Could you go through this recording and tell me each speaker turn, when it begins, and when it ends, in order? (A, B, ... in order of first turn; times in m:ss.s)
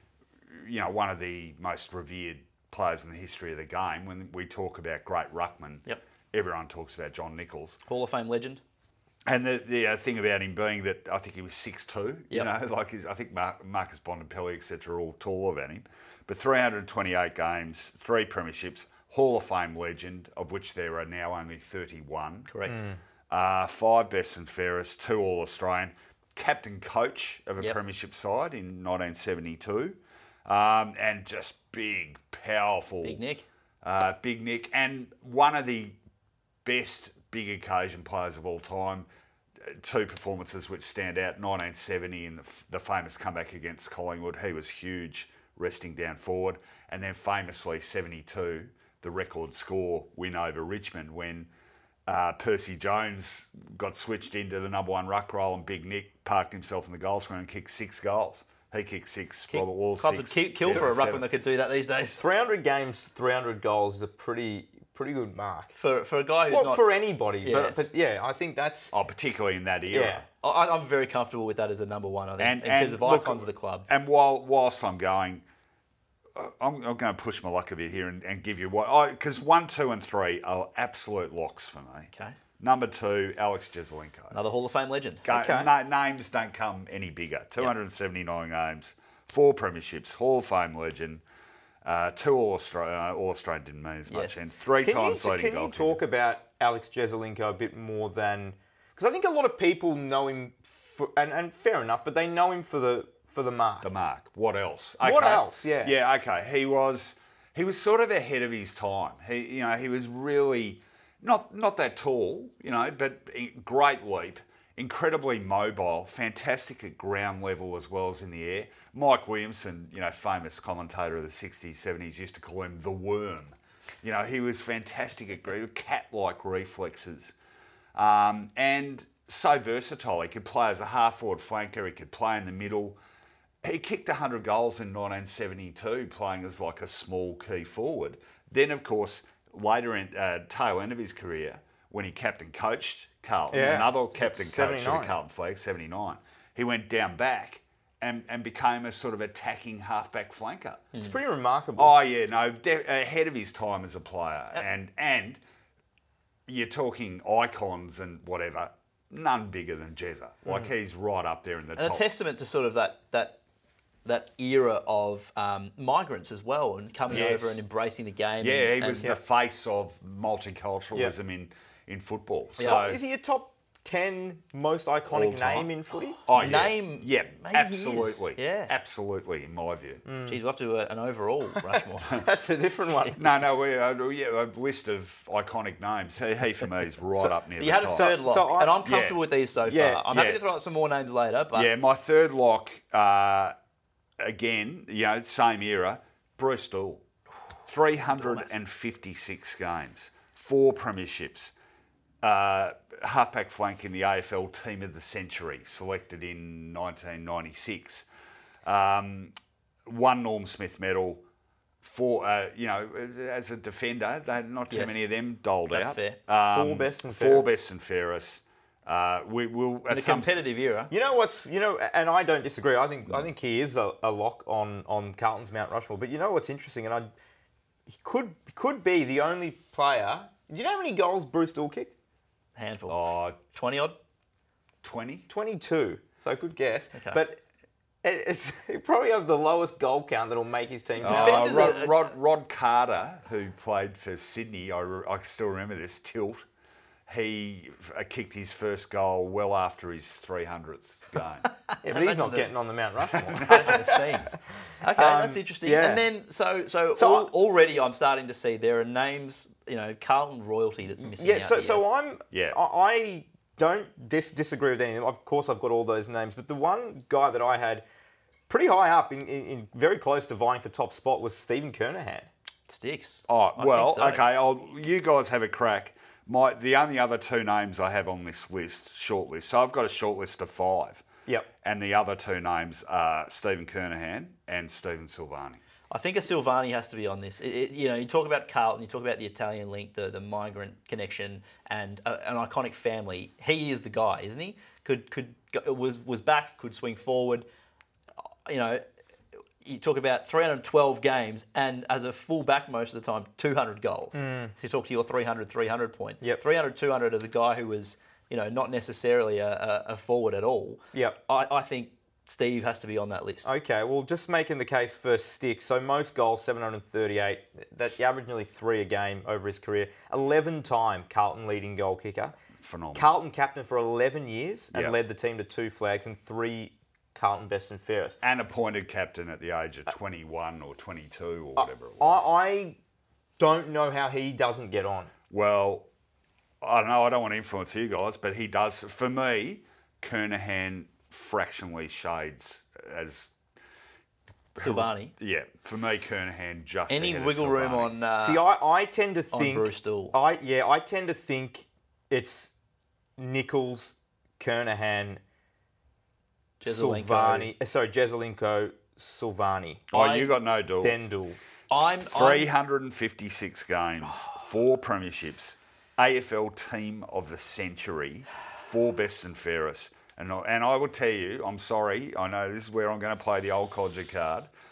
0:00.5-0:07.8 A
0:07.9-0:08.6 B
0:09.3-0:22.5 A
0:22.5-0:22.8 B
0:22.7-0:23.0 C
0:23.3-0:33.2 A
0:33.0-0:33.5 B
0:33.8-0:36.0 A
0:36.6-0:39.1 A
0:39.6-0:51.5 A
0:52.1-1:01.3 A
0:59.5-1:02.2 B
1:02.2-1:05.7 C
1:05.8-1:06.9 B
1:06.5-1:08.9 C
1:07.4-1:07.9 B
1:08.9-1:10.3 A
1:09.9-1:10.2 C
1:10.4-1:13.9 B
1:12.4-1:15.4 A
1:16.4-1:24.4 A
1:24.3-1:25.2 B
1:25.2-1:31.2 A
1:25.3-1:25.7 C
1:31.8-1:36.0 A
1:34.1-1:34.4 B
1:34.8-1:43.9 C
1:43.8-2:07.3 A
1:45.0-1:46.0 C
2:08.0-2:13.0 A
2:13.6-2:30.9 A
2:23.5-2:25.2 C
2:31.0-2:31.9 C
2:31.8-2:35.4 A
2:36.5-2:42.1 A
2:41.8-2:43.4 B
2:44.0-2:49.1 B
2:47.1-2:47.6 A
2:48.4-2:53.0 A
2:52.6-2:56.2 C
2:55.1-2:55.7 A
2:56.3-3:00.0 A
2:56.3-2:58.7 B
3:00.1-3:00.4 C
3:00.3-3:02.2 B
3:02.1-3:03.2 C
3:03.2-3:08.1 A
3:07.6-3:11.7 B
3:07.9-3:08.8 C
3:08.8-3:09.2 A
3:09.6-3:10.1 C
3:10.1-3:10.4 A
3:11.5-3:13.5 A
3:14.2-3:17.0 A
3:17.7-3:21.5 A
3:18.1-3:18.5 B
3:22.2-3:28.1 A
3:28.6-3:29.3 A
3:29.9-3:31.2 A
3:31.8-3:40.4 A
3:34.7-3:35.1 B
3:35.7-3:36.2 B
3:36.3-3:37.6 C
3:39.9-3:40.9 B
3:40.9-3:47.1 C
3:47.9-3:51.9 C
3:52.6-3:54.0 B
3:52.9-3:53.4 A
3:54.8-3:55.3 A
3:55.3-3:57.4 C
3:57.0-3:57.2 B
3:58.0-4:01.8 C
4:01.0-4:02.1 B
4:01.0-4:06.4 A
4:07.1-4:11.5 A
4:11.8-4:14.2 C
4:11.8-4:12.5 B
4:13.4-4:21.8 B
4:14.9-4:16.1 C
4:17.0-4:17.3 C
4:21.0-4:27.8 C
4:22.3-4:22.6 A
4:28.5-4:32.3 C
4:32.7-4:34.2 B
4:33.3-4:41.1 A
4:41.6-4:45.6 A
4:45.9-4:57.5 B
4:58.5-4:58.8 B
4:59.6-5:13.5 B
5:04.1-5:04.5 C
5:13.4-5:22.4 C
5:22.6-5:23.1 A
5:22.9-5:28.2 C
5:28.2-5:32.3 A
5:31.6-5:32.8 C
5:33.4-5:35.1 C
5:35.3-5:35.9 A
5:36.6-5:43.3 A
5:44.6-5:48.0 A
5:44.6-5:45.1 B
5:46.9-5:48.4 B
5:48.2-5:52.5 C
5:49.3-5:50.2 B
5:53.2-5:55.2 C
5:56.6-5:57.5 B
5:56.6-5:59.9 C
5:59.9-6:01.0 A
5:59.9-6:00.3 B
6:00.8-6:01.4 C
6:01.7-6:02.5 B
6:02.0-6:14.5 A